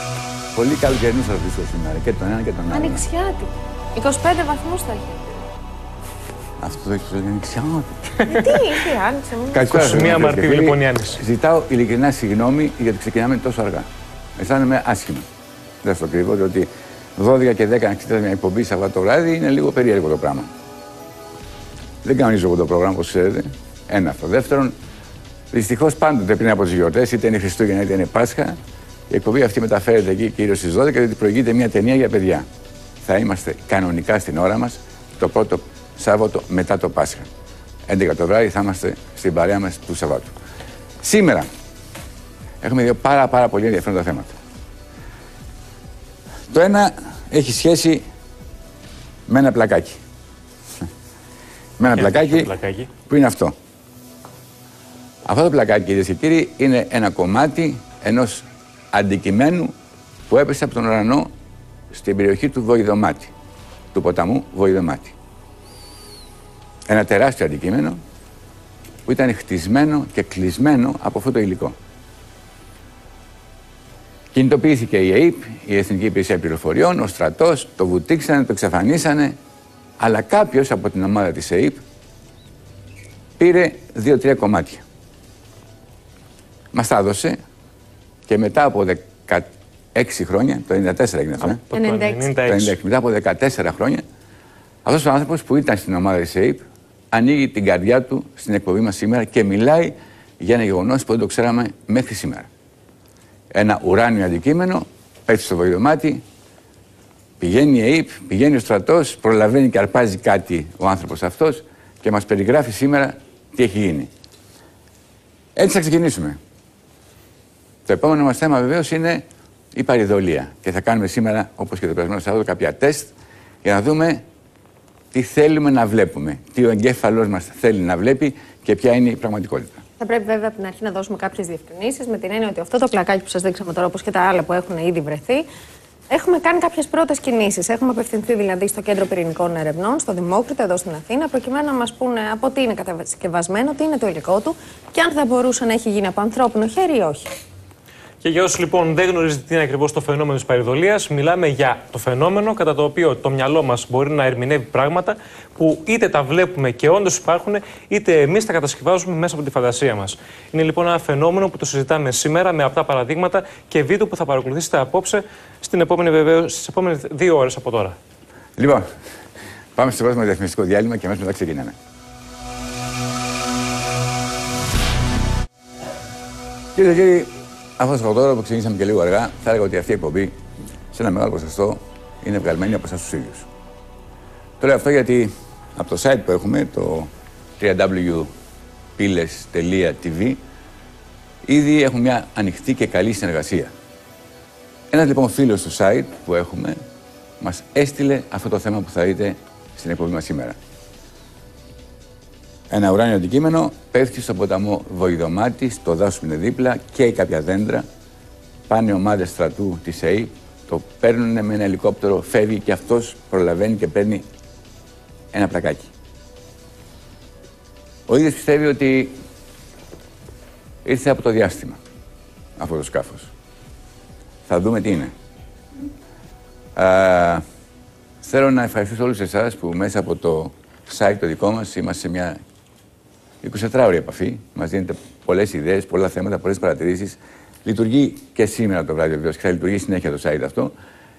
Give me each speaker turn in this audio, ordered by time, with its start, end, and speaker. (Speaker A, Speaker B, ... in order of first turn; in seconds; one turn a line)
Speaker A: 0.5-3.0
Speaker B: 2.7-5.3
Speaker A: 6.6-8.1
Speaker B: 8.3-9.6
Speaker A: 9.5-15.3
Speaker C: 9.6-11.2
Speaker A: 15.8-20.5
Speaker A: 22.0-24.8
Speaker A: 25.5-28.6
Speaker A: 29.1-32.5
Speaker A: 33.0-37.3
Speaker A: 37.9-40.3
Speaker A: 41.0-41.5
Speaker A: 42.6-44.4
Speaker A: 46.5-48.1
Speaker A: 49.3-50.0
Speaker A: 51.8-52.5
Speaker C: 51.9-52.9
Speaker A: 53.1-53.6
Speaker A: 55.3-59.7
Speaker A: 60.3-61.3
Speaker A: 61.9-63.3
Speaker A: 63.9-65.2
Speaker A: 66.9-68.0
Speaker A: 69.1-71.8
Speaker A: 74.3-79.4
Speaker A: 80.0-81.8
Speaker A: 83.4-84.8
Speaker A: 86.7-87.4
Speaker A: 88.3-91.6
Speaker C: 91.4-92.8
Speaker B: 91.7-92.3
Speaker A: 92.5-94.0
Speaker A: 94.8-102.5
Speaker A: 103.5-106.2
Speaker A: 107.4-114.1
Speaker A: 115.6-116.4
Speaker A: 117.9-123.1
Speaker A: 123.6-124.2
Speaker A: 125.1-129.8
Speaker B: 130.0-135.5
Speaker B: 136.1-147.3
Speaker C: 148.2-168.0
Speaker A: 168.6-168.9
Speaker A: 169.8-171.8
Speaker A: 176.8-180.4
Speaker A: 180.9-183.5
Speaker A: 184.6-188.3
Speaker A: 189.0-190.4
Speaker A: 191.5-193.7
Speaker A: 194.9-196.8
Speaker A: 197.4-200.6
Speaker A: 202.7-207.8
Speaker A: 208.7-214.2
Speaker A: 215.3-215.9
Speaker A: 218.1-219.2
Speaker A: 220.8-221.8
Speaker A: 222.6-223.3
Speaker A: 224.5-225.1
Speaker A: 226.8-227.4
Speaker A: 228.2-232.4
Speaker A: 233.4-240.7